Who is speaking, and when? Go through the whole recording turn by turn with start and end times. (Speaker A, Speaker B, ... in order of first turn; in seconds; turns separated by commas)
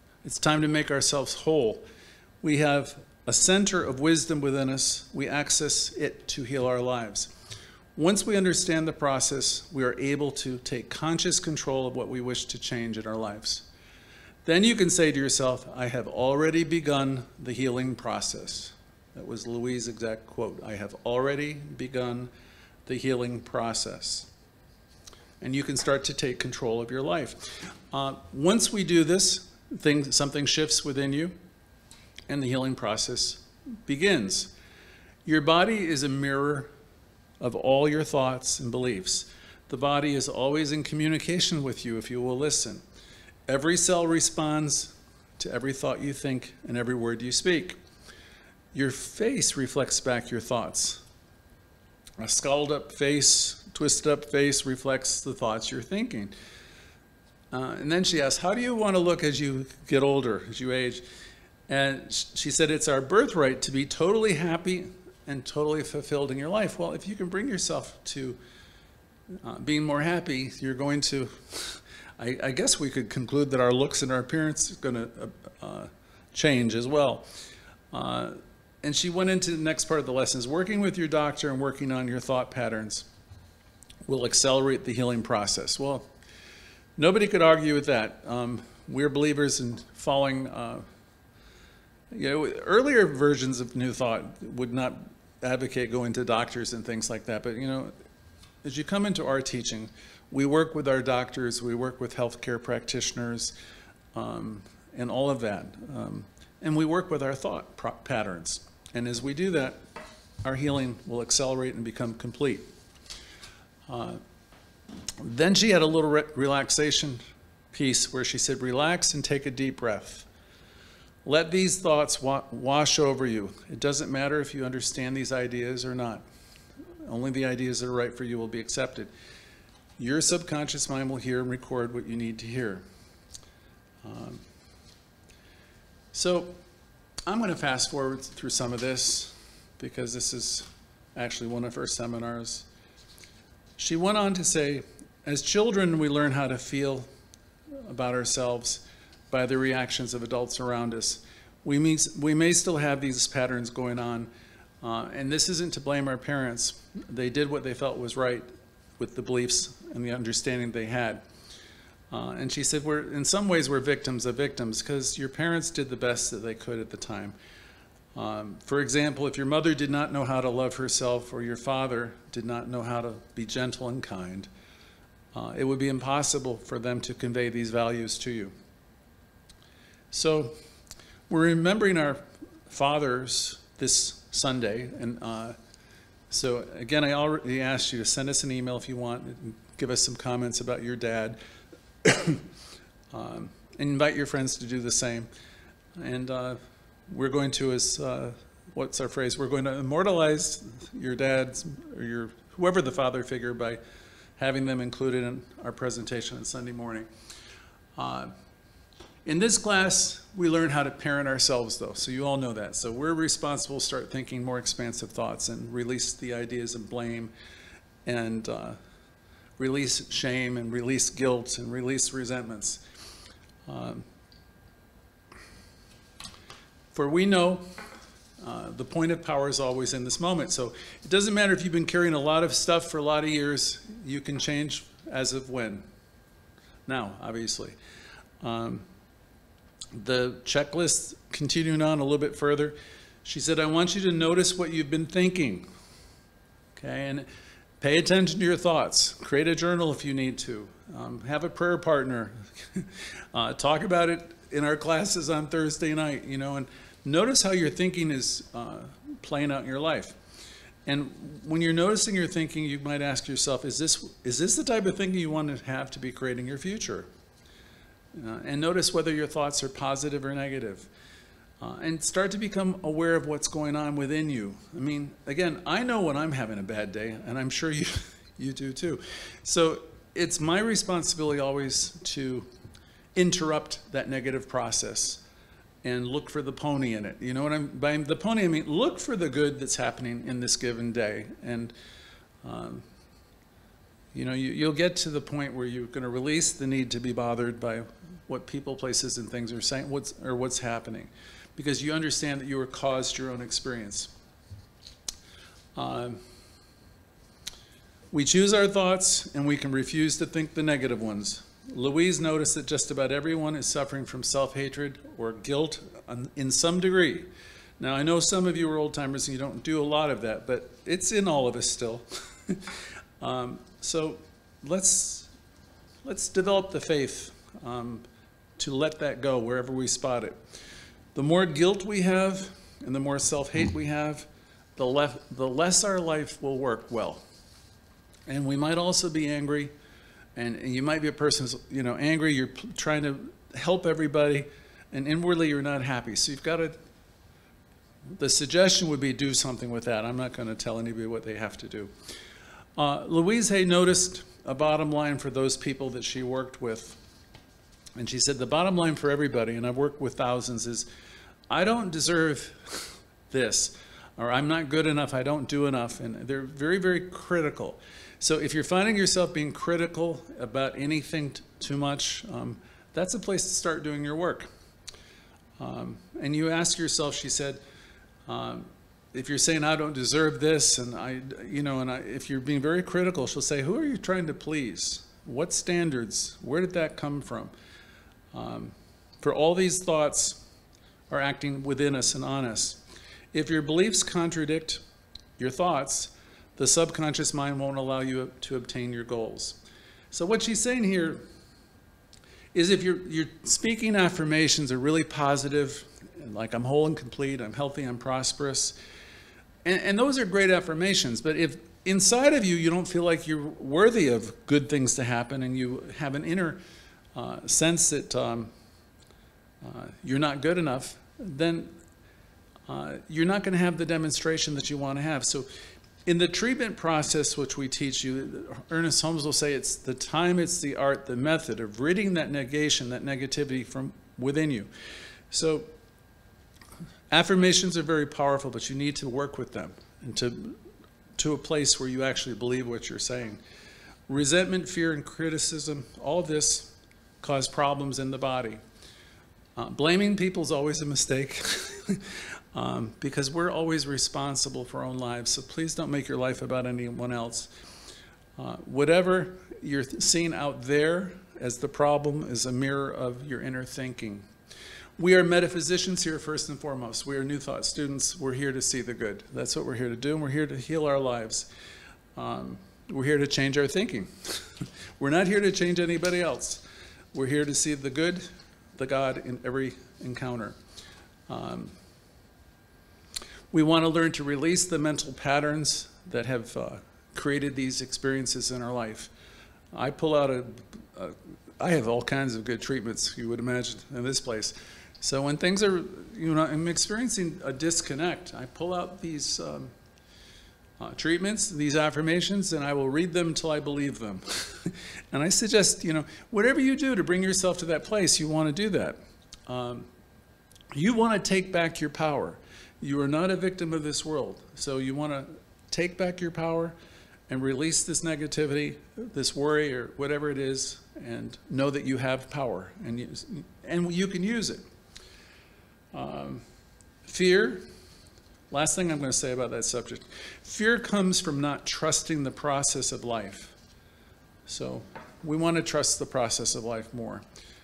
Speaker A: 0.2-1.9, Speaker A: 2.4-7.3, Speaker A: 8.0-13.7, Speaker A: 14.4-22.3, Speaker A: 22.9-24.3, Speaker A: 25.4-31.3, Speaker A: 32.3-34.5, Speaker A: 35.2-36.7, Speaker A: 37.4-42.8, Speaker A: 43.5-47.8, Speaker A: 48.7-51.0, Speaker A: 52.2-56.3, Speaker A: 57.5-61.0, Speaker A: 61.7-68.4, Speaker A: 69.4-77.3, Speaker A: 77.9-83.1, Speaker A: 84.1-86.1, Speaker A: 87.0-90.8, Speaker A: 92.1-97.9, Speaker A: 98.6-103.5, Speaker A: 104.1-109.8, Speaker A: 110.4-112.7, Speaker A: 113.9-114.2, Speaker A: 115.2-117.2, Speaker A: 117.7-120.3, Speaker A: 121.2-126.2, Speaker A: 127.0-129.1, Speaker A: 130.0-132.8, Speaker A: 134.0-134.4, Speaker A: 136.1-136.6, Speaker A: 137.3-142.7, Speaker A: 143.8-147.1, Speaker A: 147.8-154.3, Speaker A: 154.8-158.5, Speaker A: 159.0-161.2, Speaker A: 162.1-167.4, Speaker A: 168.2-174.5, Speaker A: 175.3-178.5, Speaker A: 180.1-180.6, Speaker A: 181.3-185.6, Speaker A: 186.3-191.4, Speaker A: 192.0-192.5, Speaker A: 193.1-195.3, Speaker A: 196.0-203.8, Speaker A: 204.4-207.1, Speaker A: 208.0-208.3, Speaker A: 209.2-217.3, Speaker A: 218.1-218.8, Speaker A: 219.6-222.8, Speaker A: 223.7-224.1, Speaker A: 226.9-227.7, Speaker A: 228.4-235.9, Speaker A: 236.9-237.8, Speaker A: 238.4-238.9, Speaker A: 239.9-245.7, Speaker A: 246.8-247.3, Speaker A: 247.8-260.2, Speaker A: 260.9-267.1, Speaker A: 268.1-270.9, Speaker A: 271.6-282.5, Speaker A: 283.1-285.2, Speaker A: 285.8-291.7, Speaker A: 292.4-292.9, Speaker A: 294.1-304.1, Speaker A: 305.8-306.2, Speaker A: 308.1-317.3, Speaker A: 317.8-325.3, Speaker A: 326.0-328.1, Speaker A: 328.6-330.4, Speaker A: 331.1-337.2, Speaker A: 338.3-339.7, Speaker A: 340.4-346.8, Speaker A: 348.2-351.9, Speaker A: 352.8-357.0, Speaker A: 358.0-360.9, Speaker A: 361.5-374.5, Speaker A: 375.6-377.6, Speaker A: 378.3-387.5, Speaker A: 388.3-390.4, Speaker A: 391.1-392.8, Speaker A: 393.3-394.8, Speaker A: 395.4-399.6, Speaker A: 400.1-401.2, Speaker A: 402.5-408.8, Speaker A: 409.6-416.6, Speaker A: 417.1-418.5, Speaker A: 419.6-421.8, Speaker A: 422.7-425.5, Speaker A: 426.1-434.7, Speaker A: 435.3-435.7, Speaker A: 437.1-440.6, Speaker A: 441.2-443.4, Speaker A: 444.1-448.6, Speaker A: 449.6-457.5, Speaker A: 458.4-464.3, Speaker A: 465.0-471.5, Speaker A: 472.2-480.6, Speaker A: 481.3-481.8, Speaker A: 483.5-489.1, Speaker A: 489.7-499.7, Speaker A: 500.8-509.9, Speaker A: 510.7-516.8, Speaker A: 517.3-524.6, Speaker A: 525.9-526.4, Speaker A: 527.0-527.7, Speaker A: 528.5-533.6, Speaker A: 534.5-537.2